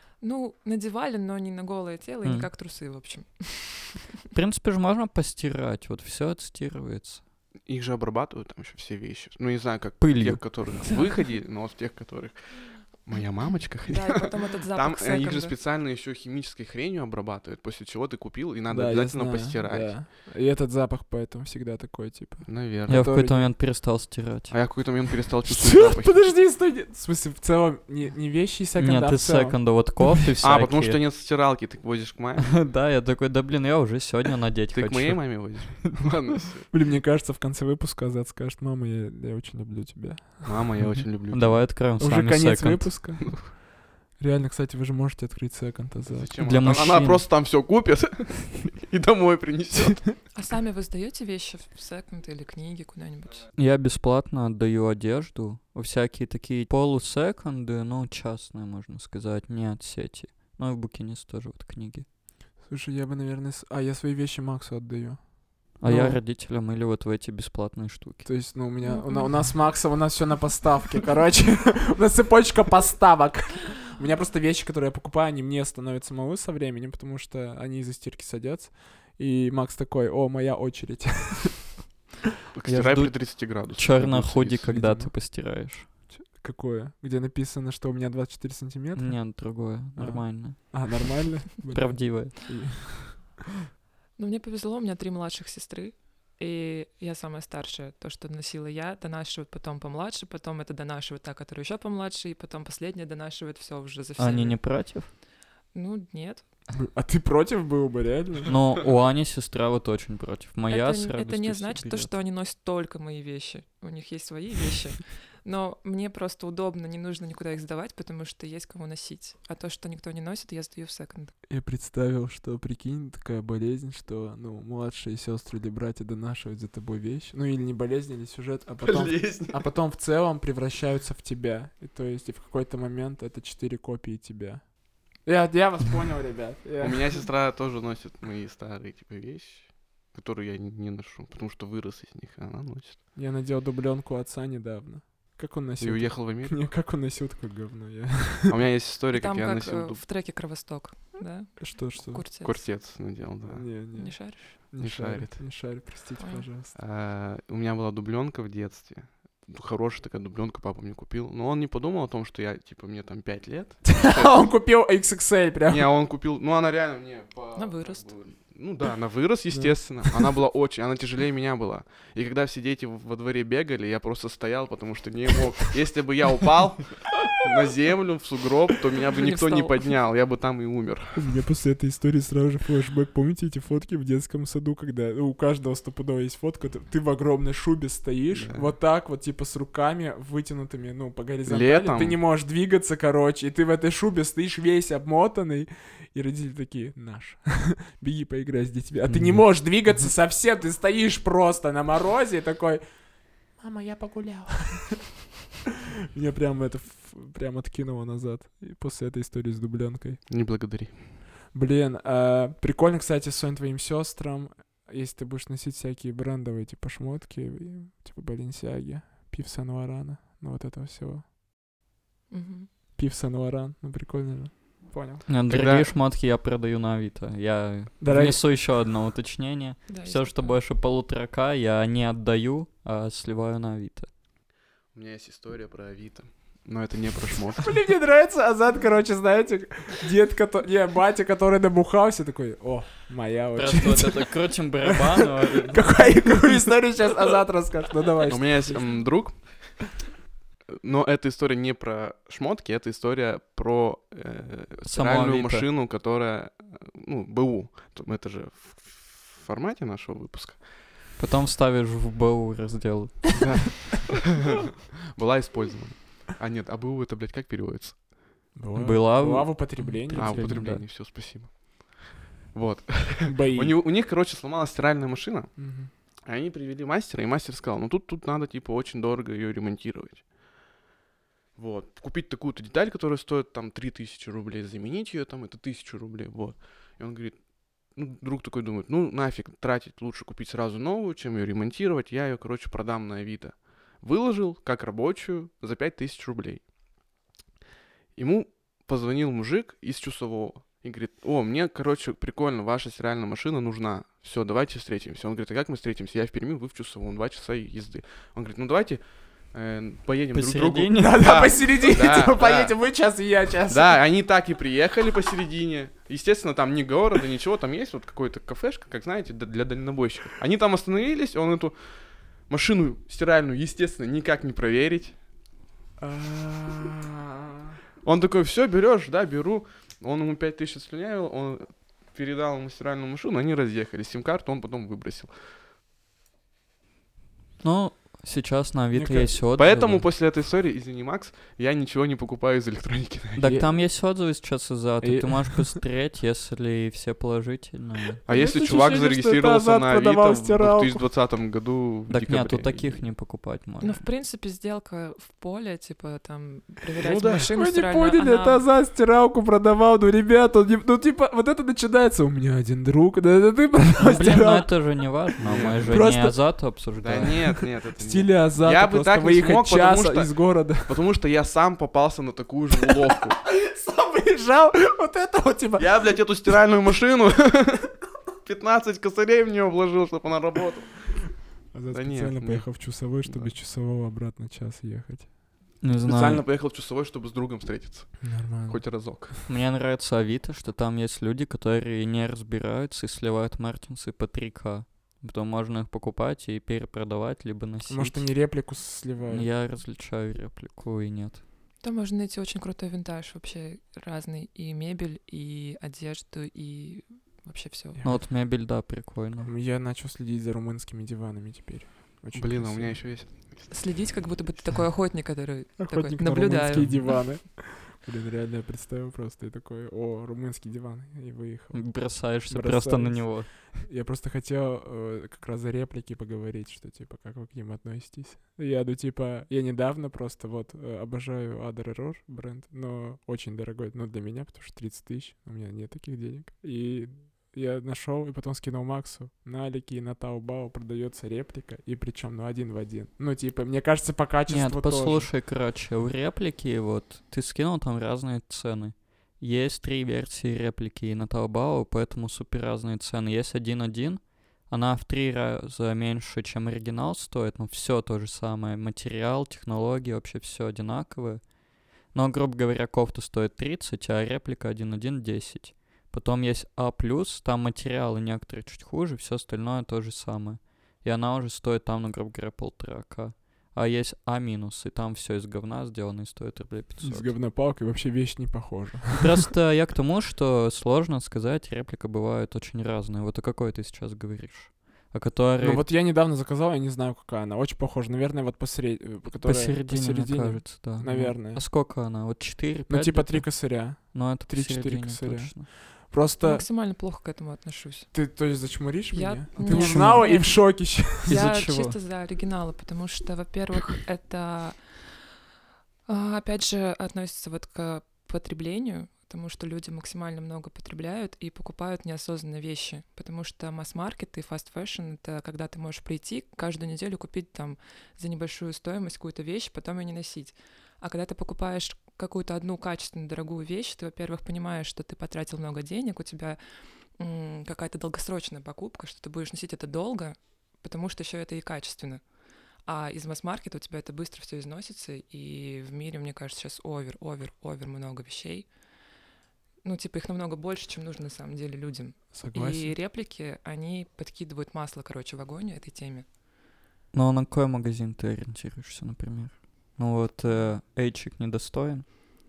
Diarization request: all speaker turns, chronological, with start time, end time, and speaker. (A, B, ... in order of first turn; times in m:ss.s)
0:00.2-0:04.1 A
0:02.2-0:02.5 B
0:04.3-0:07.2 B
0:07.7-0:20.0 C
0:10.0-0:10.9 B
0:13.9-0:15.6 A
0:18.7-0:23.5 D
0:22.4-0:23.1 C
0:22.9-0:24.5 B
0:24.5-0:26.3 C
0:25.5-0:29.7 D
0:28.8-0:31.0 B
0:30.4-0:32.6 C
0:32.4-0:35.8 B
0:34.7-0:36.7 C
0:36.7-0:40.7 D
0:40.4-0:41.7 C
0:41.3-0:43.2 B
0:42.0-0:46.3 D
0:43.2-0:43.5 C
0:46.1-0:50.1 C
0:46.4-0:47.3 B
0:50.3-0:53.5 A
0:53.6-1:02.1 B
1:02.6-1:06.2 D
1:05.8-1:08.3 B
1:08.2-1:21.8 D
1:08.8-1:09.5 A
1:22.5-1:24.8 C
1:22.6-1:25.9 B
1:24.6-1:25.4 D
1:26.1-1:33.3 D
1:29.0-1:32.4 B
1:34.2-1:45.1 A
1:44.2-1:45.1 B
1:45.7-1:46.5 A
1:46.8-1:48.6 D
1:48.5-1:52.1 B
1:50.7-2:01.3 A
2:01.5-2:17.2 D
2:08.8-2:09.7 C
2:16.8-2:23.0 C
2:23.2-2:28.5 D
2:25.8-2:26.6 C
2:28.5-2:30.0 C
2:29.1-2:32.6 A
2:31.6-2:32.2 D
2:32.4-2:33.7 C
2:33.4-2:36.8 D
2:33.9-2:34.6 A
2:34.8-2:35.4 C
2:36.2-2:36.4 A
2:36.8-2:44.4 C
2:43.9-2:45.9 D
2:45.7-3:01.3 C
2:47.6-2:48.1 A
2:49.5-2:50.3 D
2:59.0-2:59.9 A
3:01.2-3:25.2 D
3:08.3-3:08.7 C
3:11.5-3:12.2 C
3:19.1-3:19.4 B
3:26.2-3:30.2 D
3:30.3-3:31.1 C
3:31.5-3:41.2 D
3:42.3-3:42.7 A
3:43.0-3:45.2 D
3:45.3-3:54.1 B
3:45.5-3:45.9 C
3:48.0-3:48.4 D
3:49.9-3:50.6 A
3:54.9-3:57.8 C
3:57.6-4:08.9 D
4:03.6-4:06.3 B
4:08.2-4:09.6 C
4:10.8-4:20.7 C
4:14.8-4:15.7 B
4:21.2-4:23.5 B
4:23.4-4:24.4 C
4:25.1-4:28.1 C
4:28.6-4:30.6 D
4:28.7-4:30.8 B
4:30.1-4:35.6 C
4:33.2-4:33.8 D
4:35.6-4:35.9 D
4:36.3-4:40.3 C
4:41.6-4:56.6 C
4:58.2-5:12.8 C
5:10.3-5:11.5 B
5:11.0-5:14.0 D
5:13.7-5:25.2 C
5:26.0-5:27.2 D
5:28.0-5:35.3 C
5:37.6-5:40.1 B
5:38.9-5:39.3 D
5:39.5-5:43.6 C
5:43.4-5:48.6 B
5:43.4-5:43.7 D
5:45.0-5:45.8 D
5:48.3-5:53.0 C
5:48.3-5:51.0 D
5:52.1-5:54.0 B
5:53.8-5:58.7 A
5:57.0-5:57.5 C
5:57.5-6:05.2 D
6:04.0-6:07.6 B
6:05.4-6:06.0 C
6:05.8-6:06.5 D
6:07.0-6:13.4 C
6:08.0-6:11.0 D
6:13.4-6:16.3 D
6:15.8-6:21.1 C
6:21.7-6:25.4 D
6:21.9-6:23.5 C
6:25.8-6:26.4 B
6:26.0-6:29.3 C
6:28.2-6:29.1 D
6:29.5-6:38.3 B
6:37.9-6:39.5 D
6:39.3-6:41.4 B
6:41.8-6:48.0 A
6:48.0-6:48.3 D
6:48.0-6:49.5 B
6:49.4-6:53.0 D
6:52.3-6:53.7 C
6:53.7-6:57.2 A
6:55.8-7:25.3 D
7:01.7-7:03.5 B
7:24.5-7:57.3 B
7:57.0-7:59.5 D
7:59.2-8:05.9 B
8:05.6-8:11.7 D
8:09.4-8:15.7 B
8:12.9-8:16.6 D
8:16.4-8:18.1 A
8:18.1-8:21.4 D
8:19.1-8:25.2 A
8:19.6-8:20.5 B
8:21.3-8:22.0 B
8:26.1-8:46.6 A
8:47.2-8:52.2 A
8:52.9-8:58.7 A
8:59.8-9:06.3 A
9:02.3-9:03.0 D
9:07.1-9:12.0 B
9:10.4-9:10.7 A